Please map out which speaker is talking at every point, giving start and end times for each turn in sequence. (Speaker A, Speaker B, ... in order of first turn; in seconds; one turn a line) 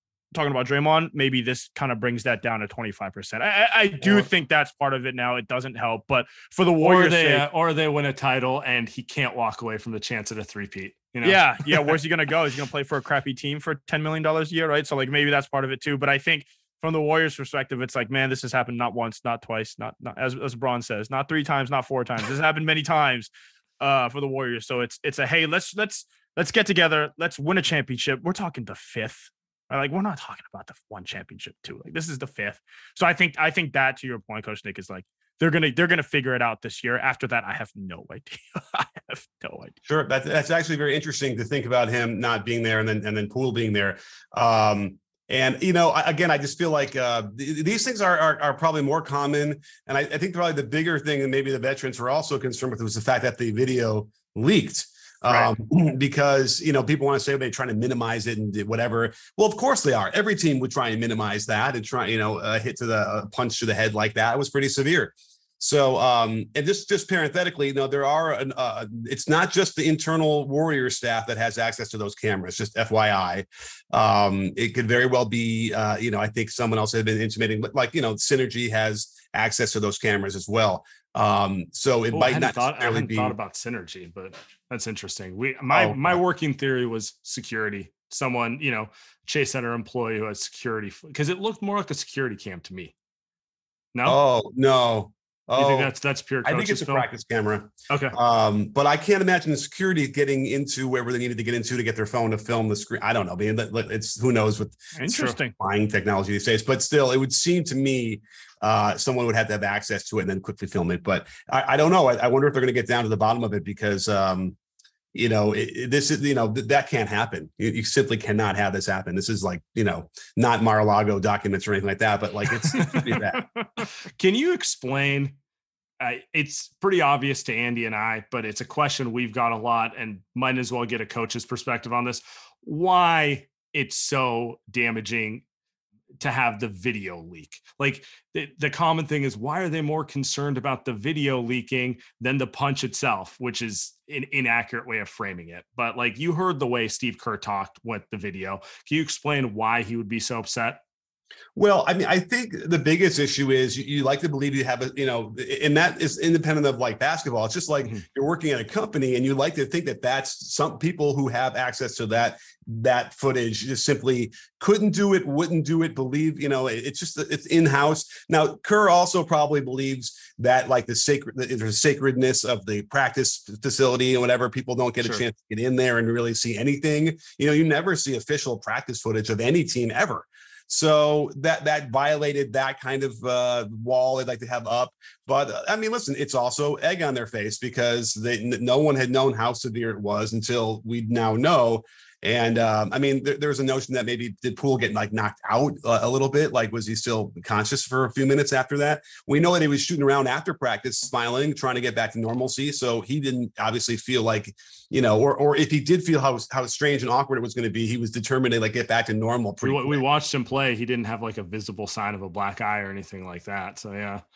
Speaker A: 0.3-7.5
Speaker B: 6.8-11.9
Speaker A: 11.2-39.7
Speaker C: 39.9-83.3
Speaker B: 55.2-55.5
Speaker B: 82.1-92.9
Speaker C: 85.7-86.2
Speaker C: 94.0-95.9
Speaker B: 95.5-97.1
Speaker C: 96.4-104.8
Speaker B: 97.9-98.2
Speaker A: 104.9-105.5
Speaker B: 105.1-105.4
Speaker C: 105.5-114.5
Speaker C: 115.1-123.4
Speaker B: 122.8-123.2
Speaker B: 124.2-125.3
Speaker B: 126.0-135.4
Speaker B: 136.2-150.8
Speaker C: 151.6-210.0
Speaker B: 209.6-214.2